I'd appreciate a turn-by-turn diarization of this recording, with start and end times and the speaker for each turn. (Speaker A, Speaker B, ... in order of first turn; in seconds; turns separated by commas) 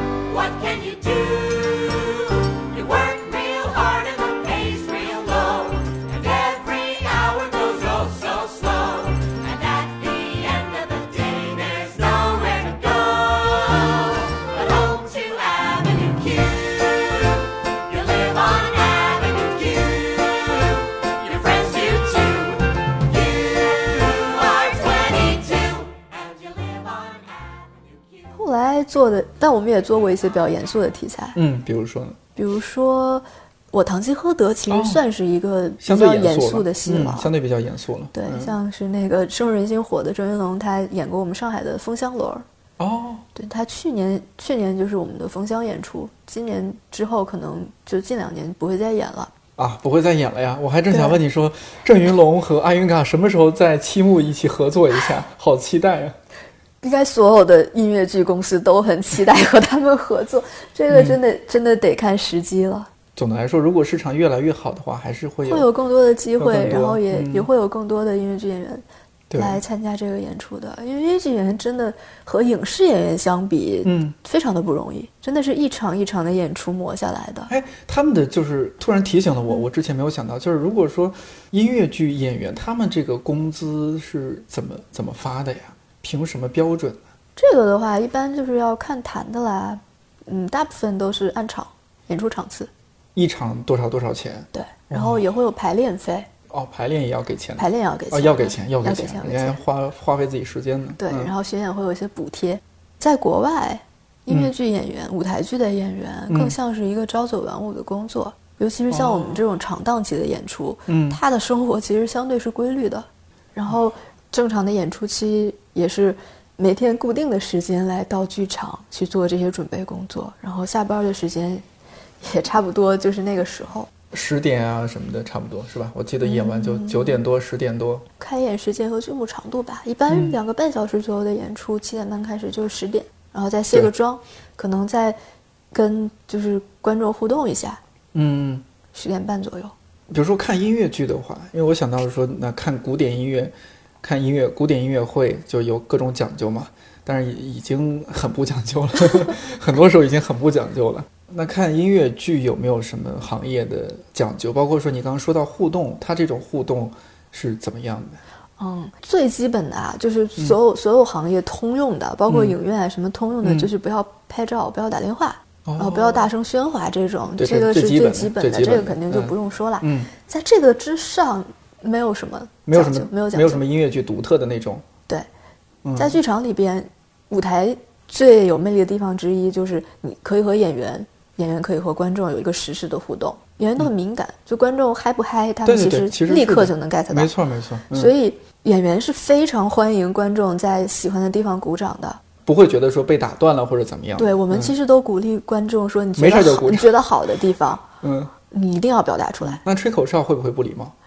Speaker A: 0.2-28.3, Speaker B: 28.3-31.4, Speaker C: 31.4-32.2, Speaker B: 32.4-37.3, Speaker C: 34.7-35.0, Speaker C: 35.8-38.5, Speaker B: 38.1-42.4, Speaker C: 42.8-43.3, Speaker B: 43.4-49.3, Speaker C: 49.6-56.2, Speaker B: 50.9-51.2, Speaker B: 56.8-62.9, Speaker C: 60.9-61.2, Speaker C: 63.2-65.7, Speaker B: 65.5-68.8, Speaker C: 66.4-67.5, Speaker C: 69.3-69.6, Speaker B: 69.3-77.5, Speaker C: 73.8-74.2, Speaker C: 77.5-87.0, Speaker B: 87.4-92.7, Speaker C: 93.2-95.2, Speaker B: 94.5-96.3, Speaker C: 96.5-101.3, Speaker B: 97.6-99.6, Speaker B: 101.0-121.7, Speaker C: 106.3-106.5, Speaker C: 108.9-109.4, Speaker C: 110.9-111.2, Speaker B: 122.2-123.9, Speaker C: 124.1-128.1, Speaker B: 126.2-127.2, Speaker B: 128.2-135.2, Speaker C: 130.1-130.4, Speaker B: 135.7-137.8, Speaker C: 138.1-138.6, Speaker B: 138.9-139.7, Speaker C: 140.1-158.2, Speaker B: 158.6-173.6, Speaker C: 162.3-162.6, Speaker C: 163.4-163.7, Speaker C: 165.7-166.3, Speaker C: 167.4-170.1, Speaker C: 172.7-174.8, Speaker C: 175.8-176.2, Speaker B: 176.0-187.3, Speaker C: 185.7-188.1, Speaker B: 187.9-192.2, Speaker C: 192.4-194.7, Speaker B: 194.2-197.8, Speaker C: 196.2-196.9, Speaker C: 198.0-198.3, Speaker B: 198.5-199.6, Speaker C: 199.4-200.9